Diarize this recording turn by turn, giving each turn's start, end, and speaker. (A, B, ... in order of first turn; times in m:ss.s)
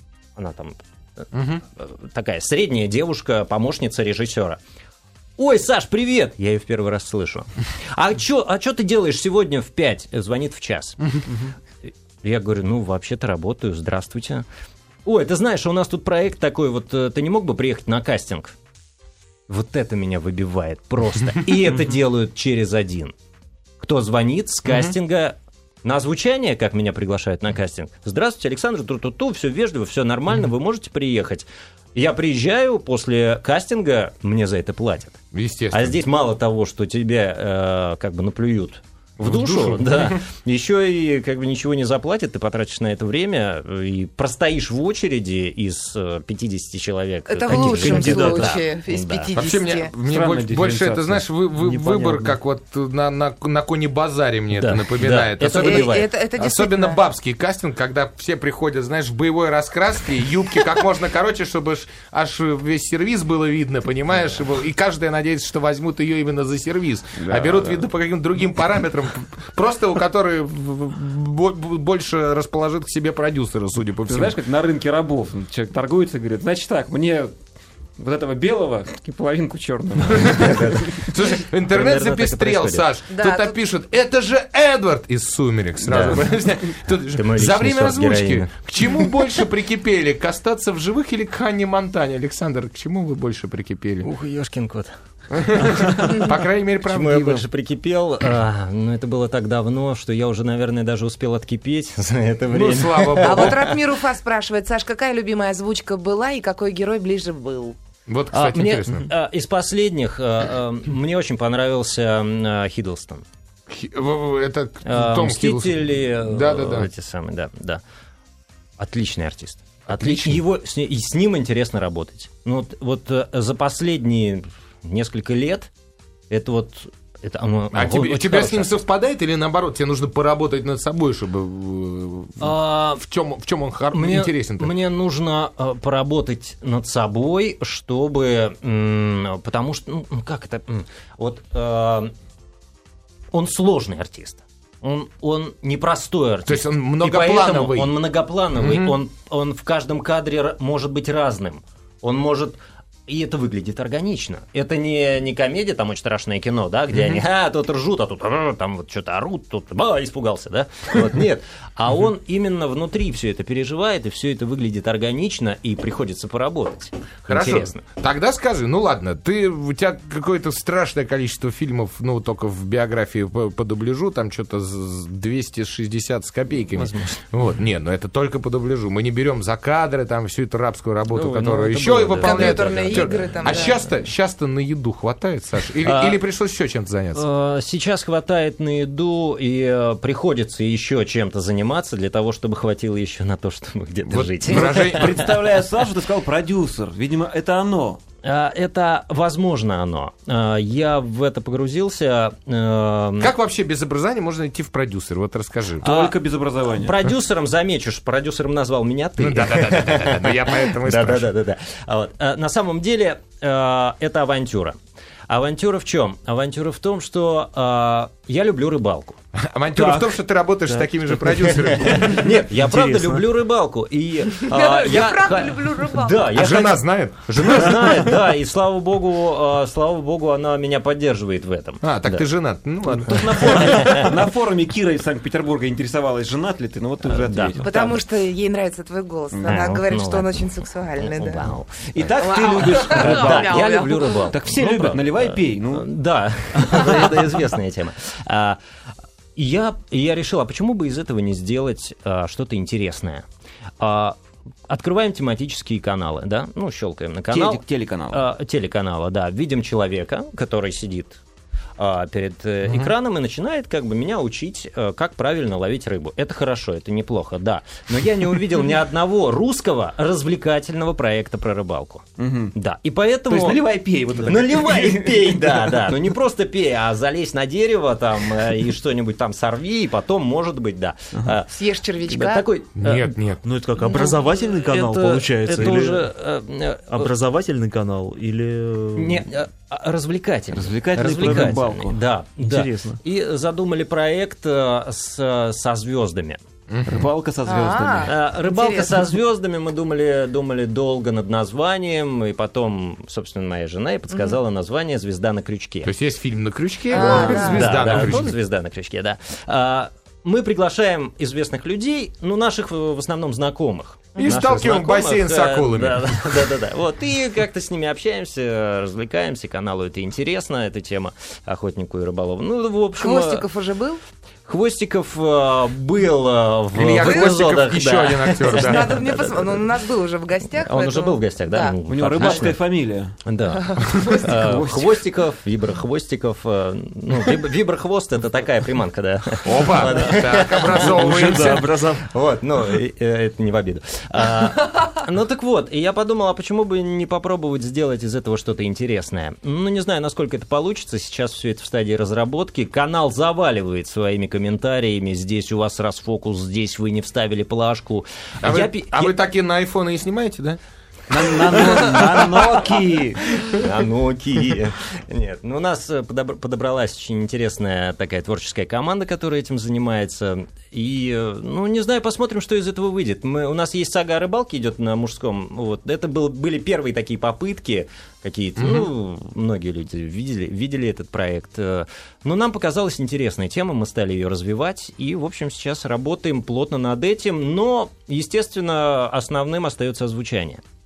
0:00.4-0:01.3 A
0:01.3-0:01.6 B
0:01.8-0:04.6 A
0:05.4-0:11.2 A
0:12.2-0:14.4 A
0:15.0-0:18.6 A
0:19.5-0:23.1 A
0:23.8-0:35.2 A
0:24.7-0:25.0 B
0:35.3-0:36.0 B
0:35.7-0:49.3 A
0:39.2-0:40.2 B
0:47.3-0:49.9 C
0:47.5-0:48.6 D
0:49.4-1:14.4 B
0:50.1-0:51.2 E
0:51.6-0:52.4 D
0:54.5-0:56.1 A
0:55.6-0:57.0 C
1:07.2-1:07.9 E
1:14.1-1:17.3 E
1:18.0-1:21.1 E
1:20.1-1:34.1 B
1:20.3-1:20.9 A
1:21.7-1:22.9 A
1:23.1-1:23.6 C
1:25.8-1:26.3 A
1:27.1-1:29.1 A
1:34.0-1:34.9 A
1:35.3-1:37.4 B
1:35.6-1:43.8 A
1:42.5-1:43.6 B
1:43.2-1:47.8 C
1:48.1-1:49.1 B
1:48.3-1:53.2 A
1:53.7-1:56.9 B
1:54.8-1:57.8 A
1:58.8-2:05.7 A
1:59.9-2:00.4 B
2:06.3-2:08.8 A
2:07.7-2:14.7 B
2:12.4-2:13.0 A
2:13.9-2:22.1 A
2:23.3-2:47.8 A
2:26.5-2:28.0 B
2:28.5-2:29.0 B
2:36.9-2:37.2 B
2:47.3-3:07.2 B
2:56.7-2:57.2 A
3:01.1-3:01.8 E
3:01.3-3:03.8 A
3:02.2-3:03.8 C
3:05.8-3:06.2 A
3:07.2-3:15.2 A
3:14.1-3:15.1 B
3:14.5-3:18.0 E
3:18.2-3:23.3 A
3:23.2-3:26.1 B
3:25.8-3:27.0 E
3:26.8-3:34.8 A
3:29.2-3:31.3 B
3:35.3-3:39.2 A
3:39.4-3:42.3 B
3:39.7-3:40.2 D
3:40.7-3:43.2 D
3:42.0-3:46.8 A
3:44.5-3:46.2 C
3:46.4-3:48.3 B
3:47.4-3:52.3 A
3:51.8-3:54.1 B
3:53.1-3:54.1 A
3:53.1-3:58.0 E
3:57.1-3:57.7 A
3:57.6-4:01.4 C
3:59.3-3:59.7 E
3:59.4-4:00.4 A
4:01.0-4:08.6 A
4:02.0-4:05.9 E
4:02.2-4:04.3 C
4:06.6-4:07.0 E
4:09.4-4:13.2 A
4:13.8-4:21.2 A
4:17.3-4:18.2 E
4:21.8-4:33.7 A
4:22.7-4:22.9 B
4:32.2-4:32.6 E
4:33.3-4:36.0 E
4:34.2-4:41.6 A
4:41.5-4:42.5 C
4:42.1-4:43.1 A
4:42.8-4:43.4 B
4:43.4-4:46.1 D
4:43.8-4:47.1 A
4:46.9-4:49.3 D
4:49.0-4:56.4 A
4:50.5-4:52.0 E
4:51.2-4:51.5 D
4:52.4-4:53.0 D
4:56.7-4:57.1 B
4:56.9-4:58.1 E
4:57.5-4:59.0 C
4:58.1-5:05.9 A
5:04.1-5:04.4 C
5:05.8-5:08.4 B
5:06.9-5:08.0 C
5:06.9-5:23.5 A
5:14.2-5:14.4 C
5:14.2-5:16.5 B
5:23.0-5:24.0 C
5:24.5-5:29.4 A
5:26.7-5:28.9 B
5:28.5-5:31.8 C
5:30.6-5:32.6 A
5:31.9-5:33.2 E
5:33.2-5:59.2 A
5:33.7-5:34.2 C
5:34.1-5:35.0 E
5:39.4-5:41.7 B
5:40.0-5:42.1 D
5:58.4-6:00.6 B
6:01.1-6:03.2 E
6:01.1-6:02.6 B
6:03.5-6:30.6 A
6:18.6-6:18.9 B